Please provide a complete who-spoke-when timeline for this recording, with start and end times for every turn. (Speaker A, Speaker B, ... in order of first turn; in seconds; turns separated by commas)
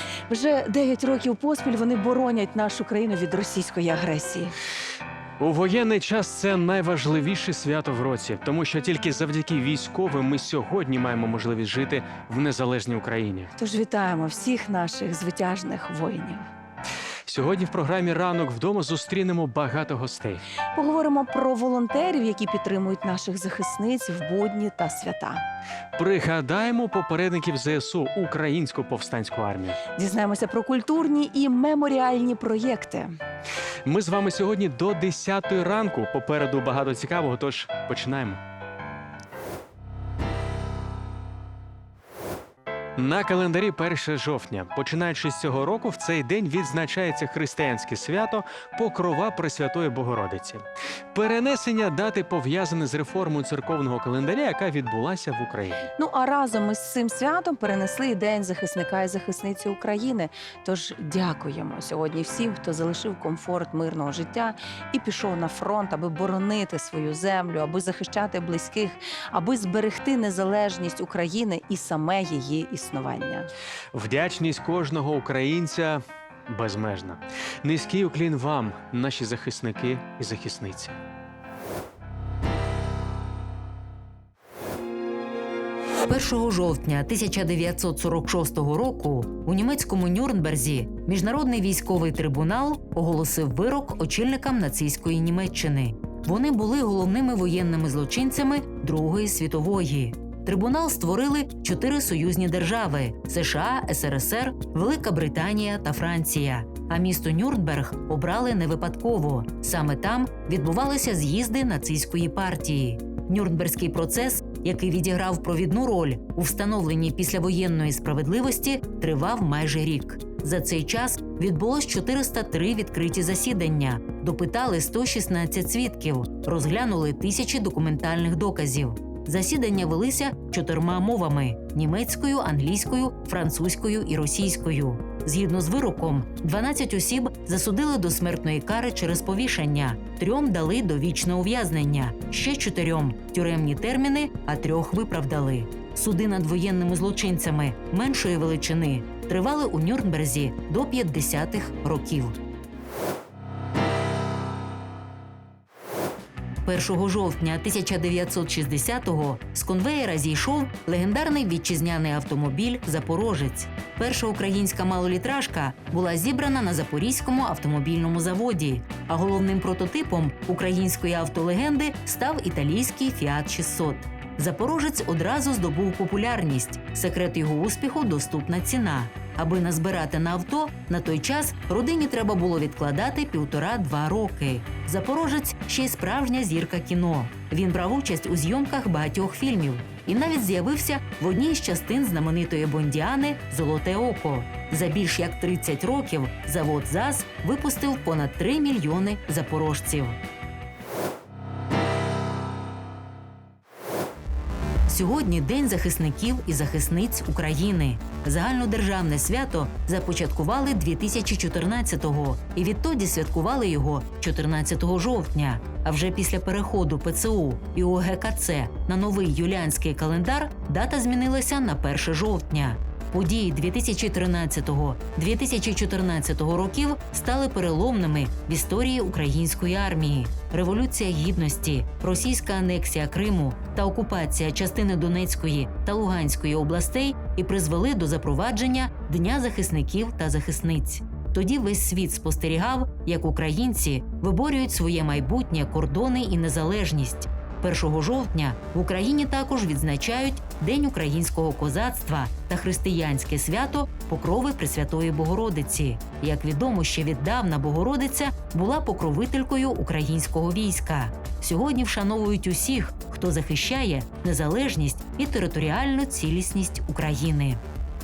Speaker A: 0.3-4.5, Speaker B: 5.4-13.5, Speaker A: 13.6-16.4, Speaker B: 17.2-20.4, Speaker A: 20.8-25.4, Speaker B: 25.9-29.8, Speaker A: 30.0-33.1, Speaker B: 33.8-38.4, Speaker B: 43.0-55.9, Speaker A: 56.0-73.5, Speaker B: 73.9-81.0, Speaker C: 86.0-152.4, Speaker C: 156.6-200.2, Speaker C: 204.9-267.6